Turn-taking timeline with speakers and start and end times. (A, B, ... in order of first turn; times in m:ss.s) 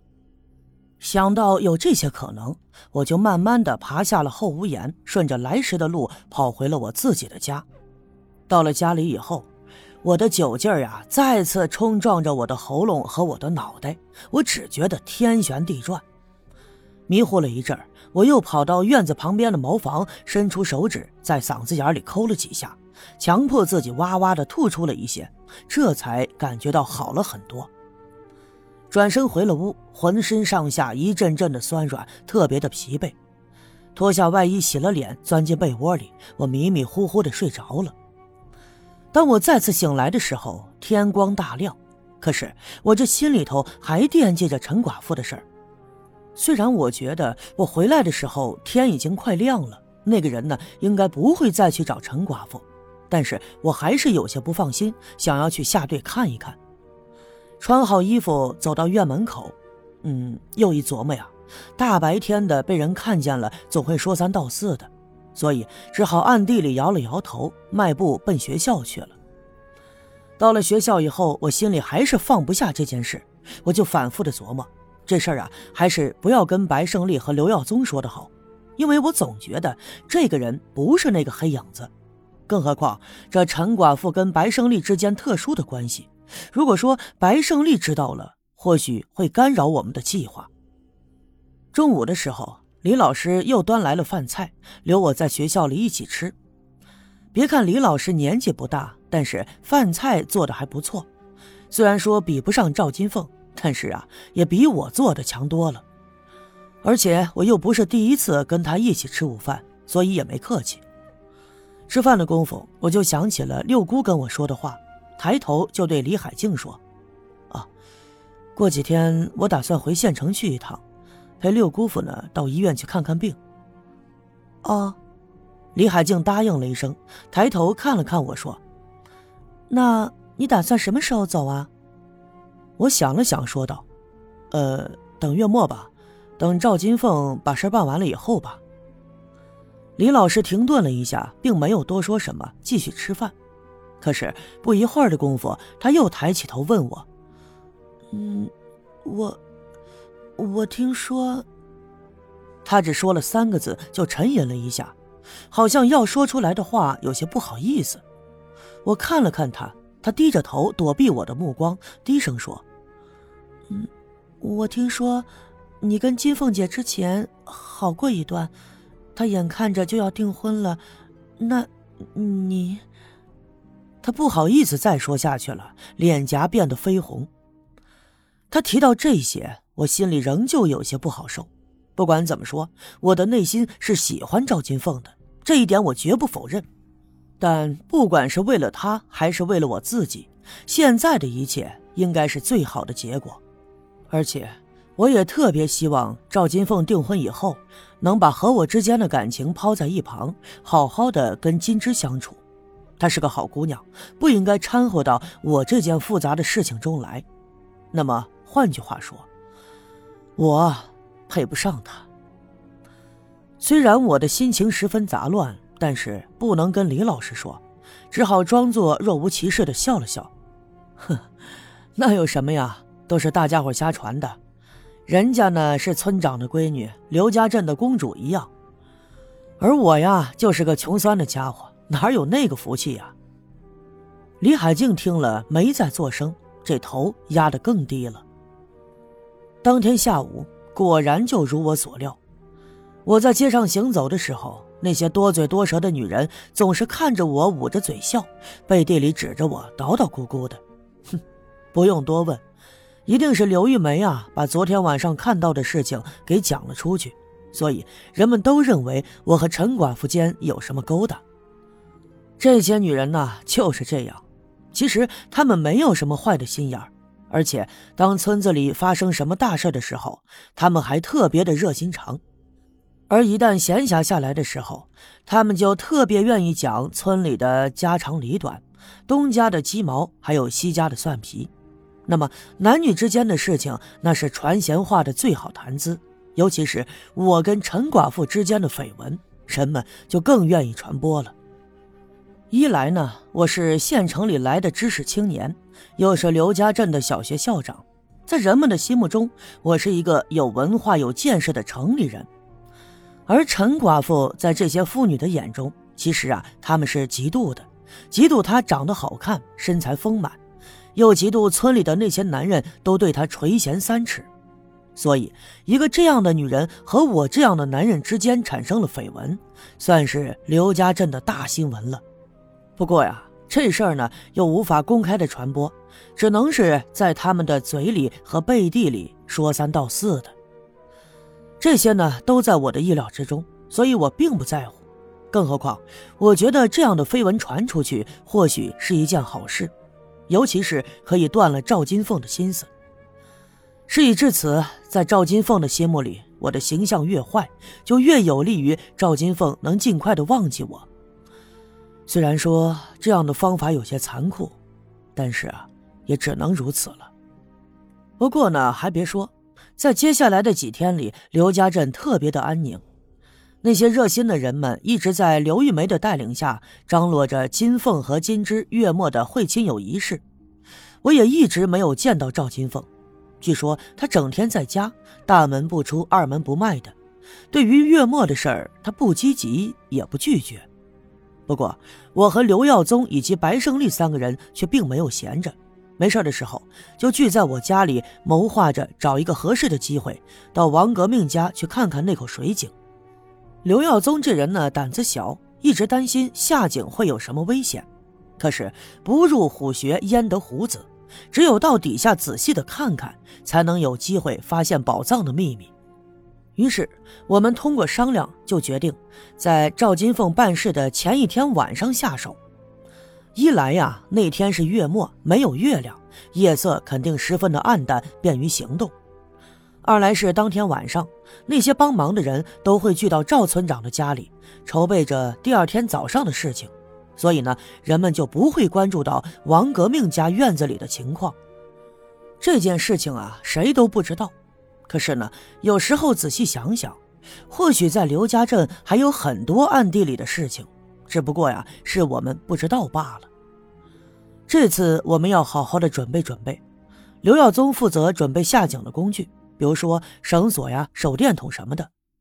0:01.0-0:07.6 A
0:08.5-0:09.5 A
0:10.0-0:16.0 A
0:17.1-0:27.7 A
0:28.9-0:33.1 A
0:33.9-0:37.9 A
0:39.1-0:45.4 A
0:46.4-0:56.6 A
0:57.6-1:09.1 A
1:10.4-1:21.9 A
1:22.5-1:30.5 A
1:31.7-1:36.3 A
1:37.3-1:41.1 A
1:41.7-1:45.8 A
1:46.8-1:50.8 A
1:51.9-1:56.8 A
1:58.6-2:00.8 A
2:01.4-2:03.4 A
2:04.6-2:05.0 A
2:05.7-2:08.6 A
2:09.7-2:11.7 A
2:12.8-2:13.8 A
2:14.5-2:18.6 A
2:20.0-2:23.3 A
2:24.0-2:27.0 A
2:28.1-2:28.5 A
2:29.0-2:29.4 A
2:30.4-2:31.4 A
2:32.6-2:34.9 A
2:35.5-2:38.0 A
2:38.8-2:42.6 A
2:44.4-2:45.3 A
2:45.8-2:48.5 A
2:49.1-2:50.8 A
2:51.4-2:52.8 A
2:54.0-2:57.3 A
2:58.5-3:06.6 A
3:07.4-3:13.4 A
3:14.1-3:22.4 A
3:23.0-3:27.2 A
3:27.9-3:29.2 A
3:30.4-3:32.1 A
3:33.6-3:40.3 A
3:42.0-3:44.4 A
3:45.1-3:48.5 A
3:49.6-3:53.1 A
3:54.4-3:58.2 A
3:59.6-4:02.2 A
4:03.0-4:10.6 A
4:11.7-4:12.4 A
4:13.0-4:21.2 A
4:22.4-4:32.2 A
4:33.1-4:41.5 A
4:42.1-4:51.3 A
4:52.5-5:02.3 A
5:03.3-5:10.4 A
5:10.9-5:14.3 A
5:15.0-5:22.0 A
5:22.8-5:30.3 A
5:31.6-5:39.7 A
5:40.3-5:42.7 A
5:43.9-5:50.8 A
5:52.1-5:54.6 A
5:55.1-5:57.1 A
5:58.2-6:02.8 A
6:03.6-6:10.2 A
6:11.0-6:12.9 A
6:13.4-6:16.9 A
6:17.5-6:20.6 A
6:21.5-6:32.7 A
6:33.6-6:37.8 A
6:38.4-6:45.7 A
6:46.6-6:52.4 A
6:53.4-6:58.9 A
6:59.8-7:11.4 A
7:12.4-7:14.3 A
7:14.9-7:23.3 A
7:24.5-7:26.6 A
7:27.2-7:31.9 A